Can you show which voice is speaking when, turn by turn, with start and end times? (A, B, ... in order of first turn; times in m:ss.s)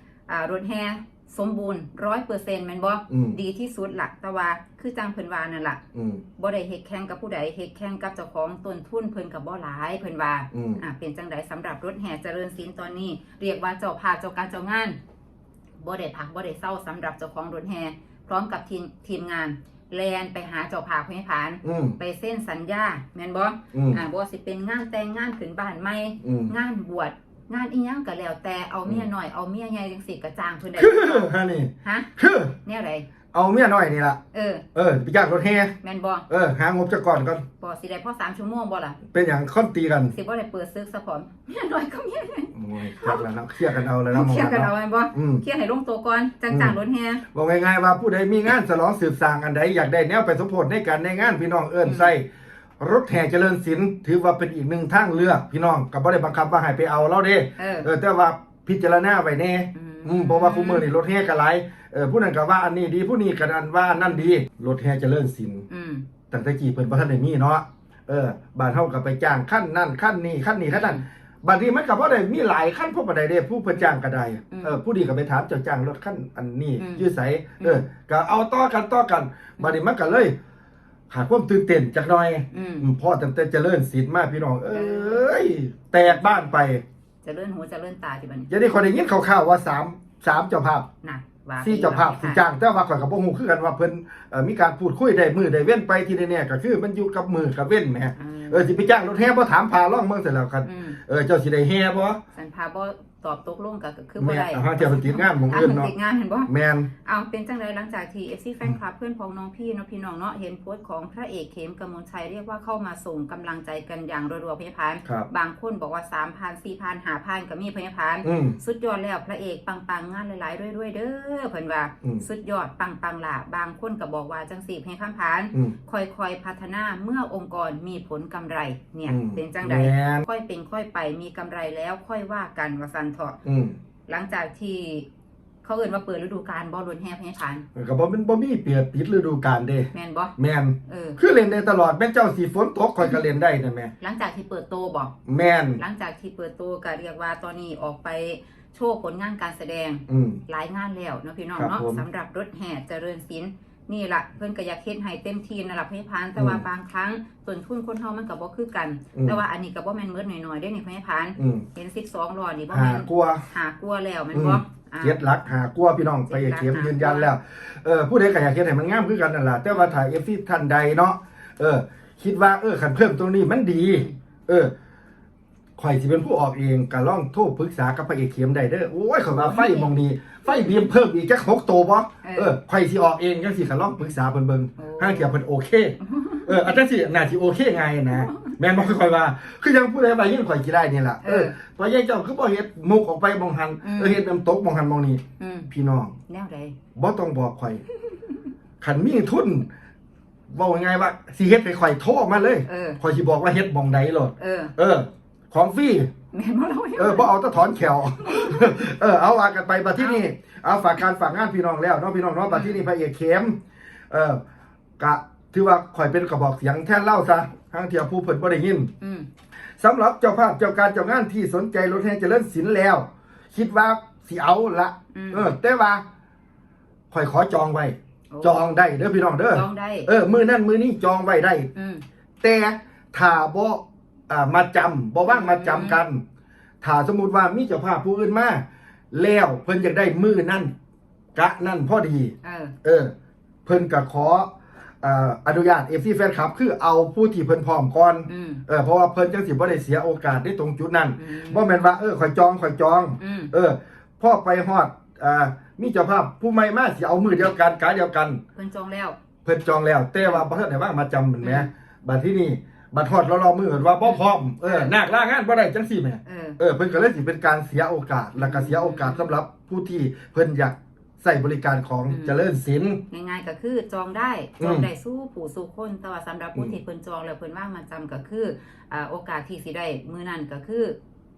0:00.3-0:05.8 A
0:03.1-0:03.4 B
0:05.9-0:06.2 B
0:06.4-0:15.0 A
0:10.5-0:10.8 B
0:15.8-0:31.3 A
0:21.6-0:22.0 B
0:23.7-0:24.0 B
0:26.2-0:26.5 B
0:30.8-0:32.6 B
0:31.8-0:32.1 A
0:32.6-0:33.1 A
0:33.3-0:34.2 B
0:34.3-0:34.6 A
0:34.8-0:35.8 B
0:35.8-0:36.3 A
0:36.3-0:37.4 B
0:37.6-0:39.0 A
0:39.1-0:40.1 B
0:40.1-0:43.3 A
0:42.5-0:45.4 B
0:44.1-0:47.2 A
0:46.5-0:46.8 B
0:47.3-0:52.3 B
0:51.8-0:52.1 A
0:52.8-1:05.6 B
0:57.6-0:57.9 A
0:59.8-1:00.9 A
1:05.7-1:06.1 A
1:06.3-1:20.4 B
1:10.7-1:11.0 A
1:16.8-1:17.1 A
1:17.6-1:17.9 A
1:21.1-1:26.8 B
1:22.5-1:22.9 A
1:24.7-1:25.4 A
1:26.0-1:26.5 A
1:27.2-1:28.5 A
1:28.5-1:30.9 B
1:31.0-1:32.4 A
1:31.6-1:42.2 B
1:38.2-1:38.7 A
1:40.6-1:41.0 A
1:42.3-1:46.5 A
1:44.2-1:45.9 B
1:46.5-1:46.9 B
1:47.0-2:13.4 A
1:58.2-1:58.6 B
2:09.1-2:10.2 B
2:13.4-2:13.8 B
2:14.1-2:15.1 A
2:15.6-2:17.6 A
2:17.8-2:23.9 B
2:19.9-2:21.2 A
2:24.0-2:25.1 A
2:25.3-2:25.8 B
2:25.8-2:45.2 A
2:30.1-2:30.4 B
2:31.6-2:32.0 B
2:36.4-2:36.6 B
2:39.2-2:39.4 B
2:41.4-2:41.7 B
2:42.7-2:43.4 B
2:44.3-2:54.7 B
2:46.3-2:47.3 A
2:49.7-2:50.0 A
2:53.8-2:54.1 A
2:55.8-3:16.2 B
2:59.4-2:59.9 A
3:00.4-3:00.9 A
3:02.2-3:02.5 A
3:04.8-3:05.4 A
3:06.0-3:06.8 A
3:08.1-3:08.5 A
3:11.2-3:11.6 A
3:13.8-3:14.2 A
3:15.4-3:15.7 A
3:16.3-3:16.8 A
3:17.0-3:17.8 B
3:18.8-3:19.7 B
3:20.5-3:26.1 B
3:22.7-3:23.0 A
3:24.4-3:24.8 A
3:26.3-3:27.3 A
3:27.0-3:34.4 B
3:28.2-3:28.7 A
3:32.5-3:32.8 A
3:35.0-3:38.9 B
3:39.0-3:39.3 A
3:39.8-3:46.0 B
3:45.1-3:45.5 A
3:47.1-3:51.7 B
3:48.3-3:48.6 A
3:49.5-3:50.1 A
3:51.8-3:52.0 A
3:52.4-3:56.2 B
3:55.3-3:56.0 A
3:56.8-4:00.7 B
4:01.4-4:03.1 B
4:02.4-4:02.7 A
4:03.7-4:18.4 B
4:08.3-4:08.6 A
4:11.2-4:11.9 A
4:13.2-4:13.5 A
4:18.5-4:19.2 A
4:19.4-4:33.0 B
4:20.2-4:20.4 A
4:21.4-4:21.7 A
4:24.0-4:24.9 A
4:26.3-4:26.6 A
4:28.4-4:29.3 A
4:32.1-4:32.4 A
4:33.1-4:41.0 A
4:34.6-4:34.9 B